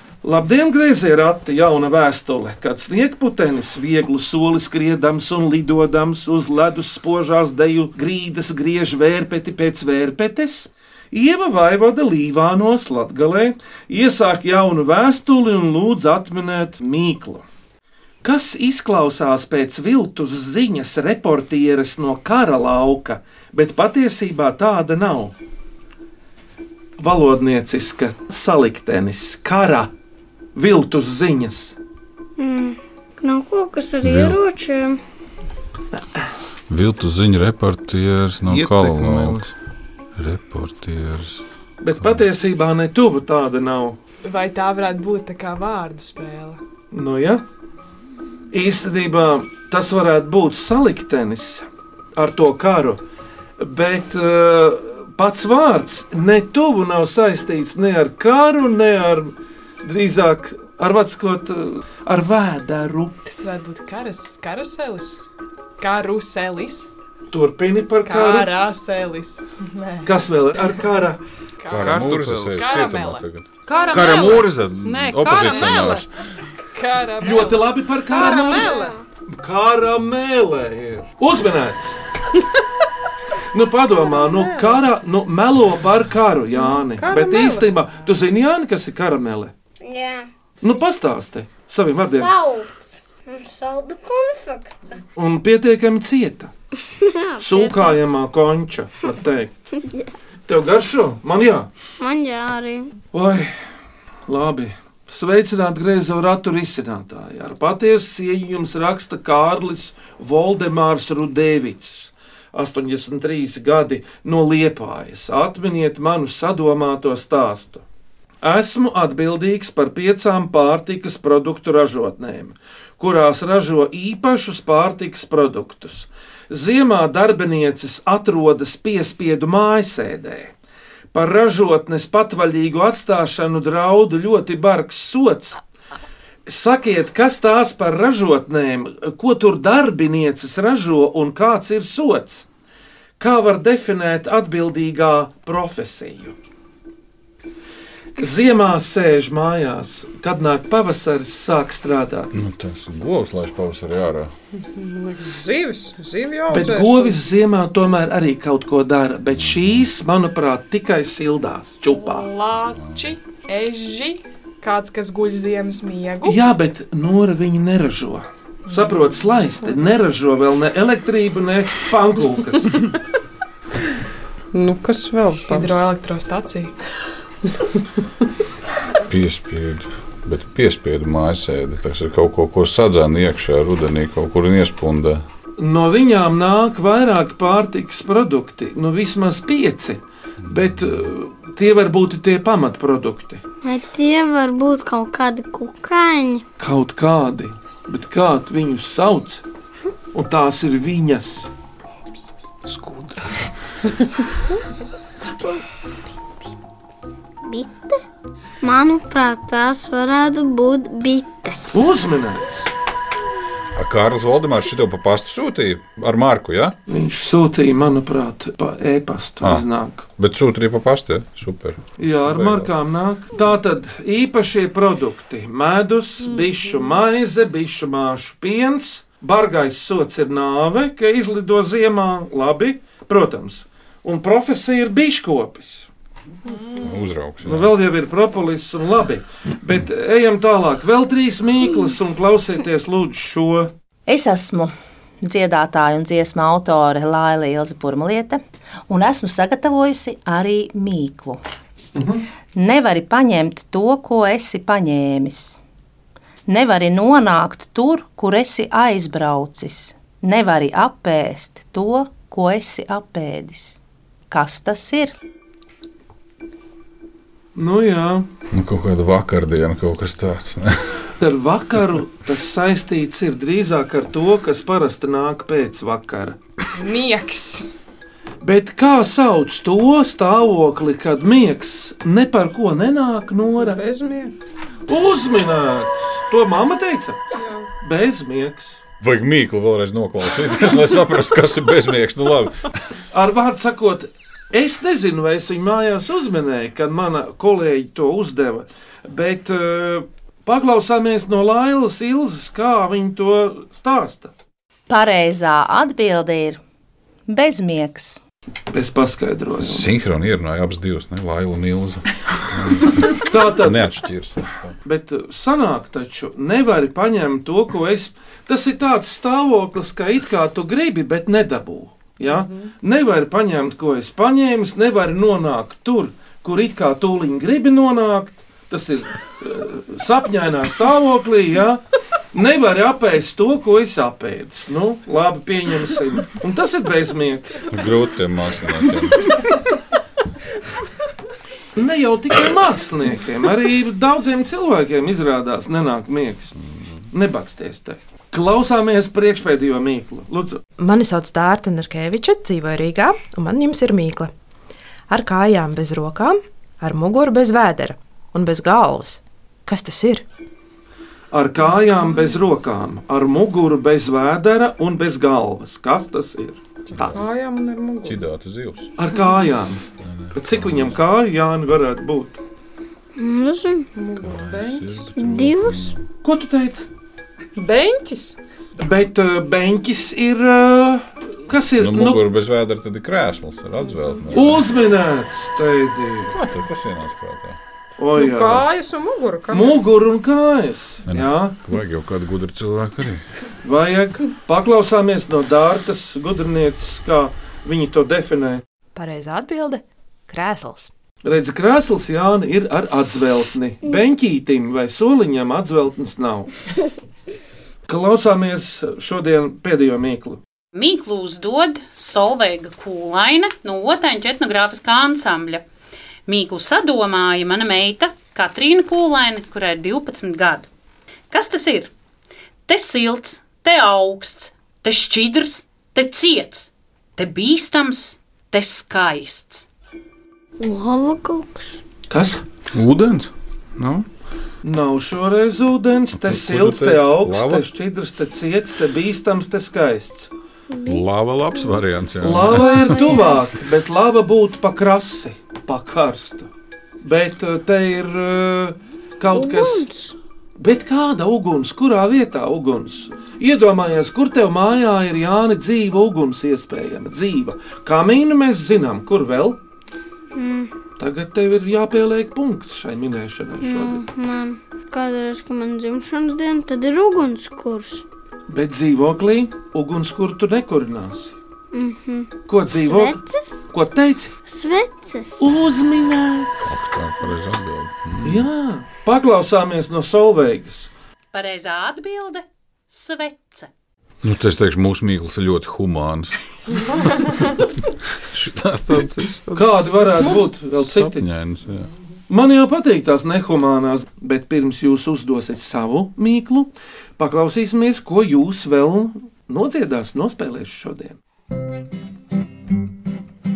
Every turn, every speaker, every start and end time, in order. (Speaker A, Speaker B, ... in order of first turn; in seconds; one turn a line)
Speaker A: 0.2-17.4
Speaker A: 18.2-25.4
Speaker A: 27.0-29.9
Speaker A: 30.6-31.7
Speaker B: 32.4-35.0
Speaker C: 34.0-34.4
Speaker C: 36.7-39.4
Speaker D: 38.5-39.5
Speaker C: 40.2-41.4
Speaker A: 41.8-44.0
Speaker E: 44.2-46.6
Speaker A: 46.9-47.4
Speaker A: 48.5-51.6
Speaker A: 52.1-53.0
Speaker A: 53.6-63.2
Speaker E: 63.2-65.2
Speaker E: 65.8-66.9
Speaker A: 67.3-68.5
Speaker E: 68.0-70.1
Speaker A: 70.0-71.2
Speaker E: 71.6-73.3
Speaker C: 71.7-76.1
Speaker D: 71.7-72.8
Speaker F: 73.7-76.1
Speaker E: 76.7-78.8
Speaker A: 77.2-82.0
Speaker F: 78.1-79.0
Speaker B: 78.5-79.0
Speaker A: 83.5-89.5
Speaker F: 84.1-84.8
Speaker F: 86.6-87.7
Speaker B: 89.8-90.3
Speaker A: 90.6-92.3
Speaker B: 92.1-95.0
Speaker A: 95.2-96.5
Speaker B: 97.0-98.0
Speaker A: 97.4-99.5
Speaker A: 100.5-101.7
Speaker B: 102.0-102.9
Speaker A: 103.1-103.5
Speaker A: 104.3-117.8
Speaker A: 118.4-130.5
Speaker A: 131.1-135.6
Speaker A: 136.5-142.4
Speaker A: 143.2-146.3
Speaker A: 148.2-152.3
Speaker C: 152.3-154.3
Speaker F: 154.6-157.2
Speaker A: 156.5-162.3
Speaker C: 159.3-159.9
Speaker E: 161.9-166.4
Speaker A: 166.2-172.8
Speaker E: 168.7-168.9
Speaker F: 174.5-175.8
Speaker E: 175.4-176.7
Speaker C: 179.1-185.2
Speaker A: 185.6-193.4
Speaker B: 193.6-196.4
Speaker A: 196.6-199.4
Speaker A: 200.1-201.5
Speaker A: 202.7-203.1
Speaker B: 207.4-208.0
Speaker B: 208.6-211.8
Speaker A: 211.7-212.7
Speaker C: 213.7-216.7
Speaker A: 216.9-220.1
Speaker C: 219.4-219.7
Speaker C: 220.2-222.7
Speaker A: 222.0-235.9
Speaker E: 236.5-237.0
Speaker C: 236.8-237.7
Speaker A: 237.4-243.7
Speaker G: 244.1-251.4
Speaker A: 251.9-252.2
Speaker G: 252.6-255.6
Speaker G: 256.5-263.8
Speaker G: 264.3-265.1
Speaker A: 267.6-268.3
Speaker C: 268.5-271.1
Speaker A: 271.2-276.4
Speaker E: 276.7-277.7
Speaker A: 278.4-283.8
Speaker F: 283.6-284.3
Speaker A: 284.9-287.2
Speaker F: 287.4-287.7
Speaker A: 287.8-288.8
Speaker C: 289.0-292.7
Speaker A: 293.1-304.3
Speaker G: 304.9-306.6
Speaker G: 307.3-308.2
Speaker A: 308.7-309.9
Speaker C: 309.6-314.7
Speaker A: 313.2-313.9
Speaker A: 314.9-331.8
Speaker F: 322.3-322.6
Speaker A: 332.3-337.6
Speaker C: 337.7-339.3
Speaker A: 341.7-346.5
Speaker C: 346.6-347.1
Speaker A: 347.1-350.6
Speaker H: 350.8-354.3
Speaker H: 355.1-360.2
Speaker A: 361.3-367.3
Speaker C: 366.9-367.3
Speaker F: 367.1-368.2
Speaker C: 368.0-368.9
Speaker A: 369.0-372.4
Speaker C: 370.0-371.0
Speaker B: 373.2-373.9
Speaker F: 373.9-375.0
Speaker C: 374.2-376.0
Speaker B: 375.2-375.9
Speaker A: 376.2-376.9
Speaker F: 377.6-378.4
Speaker A: 378.8-382.2
Speaker C: 381.8-384.7
Speaker A: 384.3-386.4
Speaker C: 386.3-387.6
Speaker A: 388.0-388.7
Speaker F: 388.1-389.9
Speaker A: 389.5-391.6
Speaker C: 391.1-393.2
Speaker A: 393.6-398.6
Speaker H: 398.9-400.9
Speaker A: 401.2-406.5
Speaker A: 407.9-410.4
Speaker I: 410.7-415.6
Speaker I: 416.3-420.7
Speaker I: 421.3-421.9
Speaker I: 422.7-429.7
Speaker B: 430.6-431.8
Speaker A: 432.1-432.4
Speaker D: 432.7-434.1
Speaker A: 434.6-440.3
Speaker C: 436.1-437.7
Speaker B: 440.7-441.1
Speaker C: 440.9-443.2
Speaker A: 442.2-446.5
Speaker B: 442.8-443.4
Speaker A: 447.0-449.9
Speaker B: 449.4-450.1
Speaker A: 450.6-459.6
Speaker B: 460.3-460.7
Speaker A: 461.0-464.0
Speaker B: 463.6-468.0
Speaker A: 468.5-471.4
Speaker B: 471.7-473.6
Speaker A: 472.5-473.2
Speaker A: 473.7-474.3
Speaker B: 474.5-475.5
Speaker A: 475.4-476.7
Speaker C: 476.6-478.5
Speaker A: 478.2-480.9
Speaker I: 481.3-483.7
Speaker C: 484.2-487.3
Speaker C: 488.3-491.9
Speaker A: 489.5-491.3
Speaker A: 492.3-501.2